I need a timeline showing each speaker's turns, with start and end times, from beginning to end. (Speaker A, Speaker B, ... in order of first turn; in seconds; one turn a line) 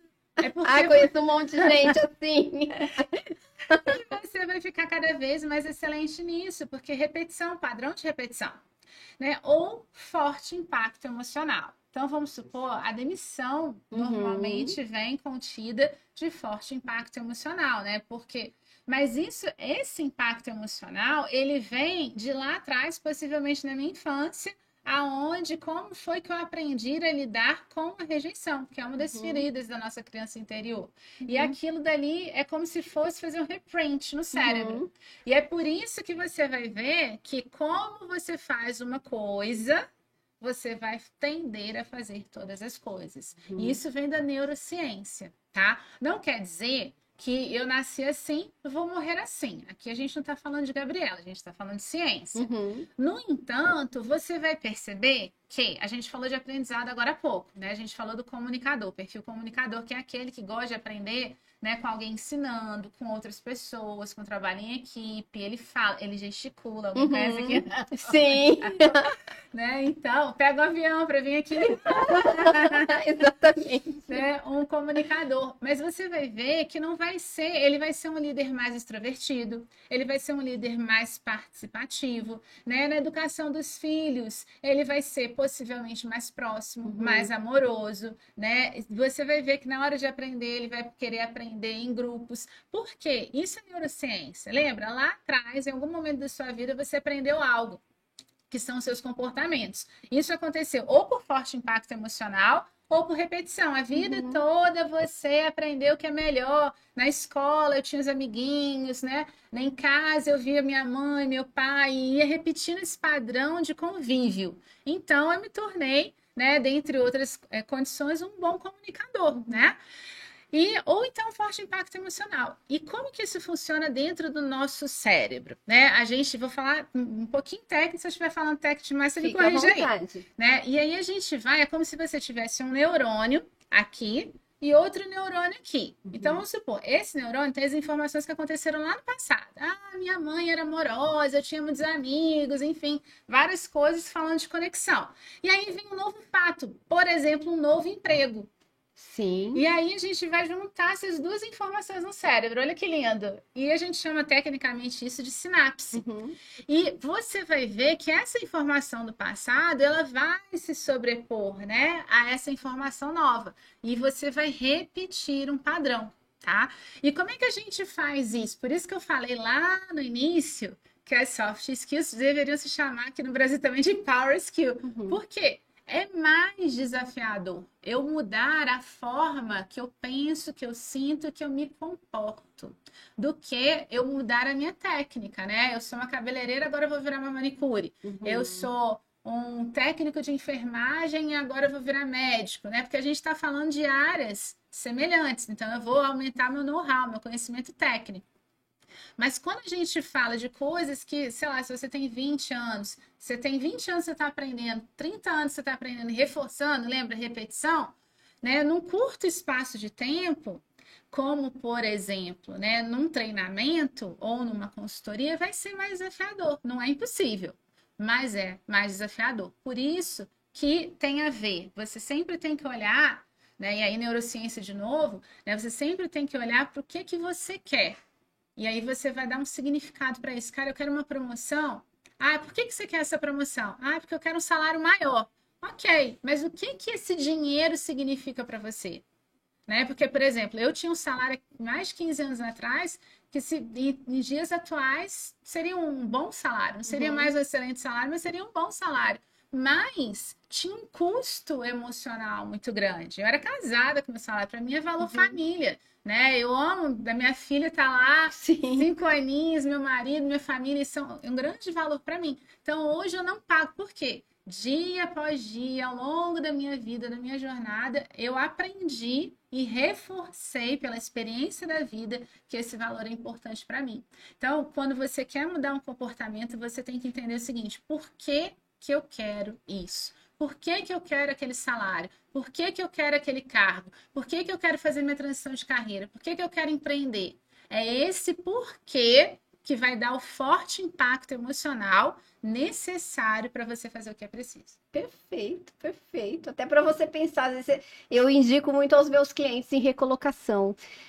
Speaker A: 0.4-2.0
Speaker B: 0.6-4.0
Speaker A: 3.7-8.6
Speaker A: 9.2-39.9
Speaker B: 13.9-14.8
Speaker B: 29.1-29.4
Speaker B: 31.2-31.6
Speaker B: 34.3-34.9
Speaker A: 40.4-73.0
Speaker B: 43.5-43.8
Speaker B: 52.4-52.9
Speaker B: 67.0-69.1
Speaker B: 71.7-74.2
Speaker A: 74.1-97.8
Speaker B: 86.8-87.3
Speaker A: 98.5-119.8
Speaker B: 103.9-104.4
Speaker A: 120.5-148.5
Speaker B: 129.2-130.2
Speaker B: 136.1-136.4
Speaker B: 149.0-149.6
Speaker A: 149.5-156.0
Speaker B: 155.9-156.4
Speaker A: 156.7-198.2
Speaker B: 174.8-175.2
Speaker B: 188.0-188.7
Speaker A: 199.2-228.0
Speaker A: 228.6-239.0
Speaker A: 239.7-294.8
Speaker B: 246.9-247.3
Speaker B: 255.0-255.4
Speaker B: 258.3-258.9
Speaker B: 294.9-300.8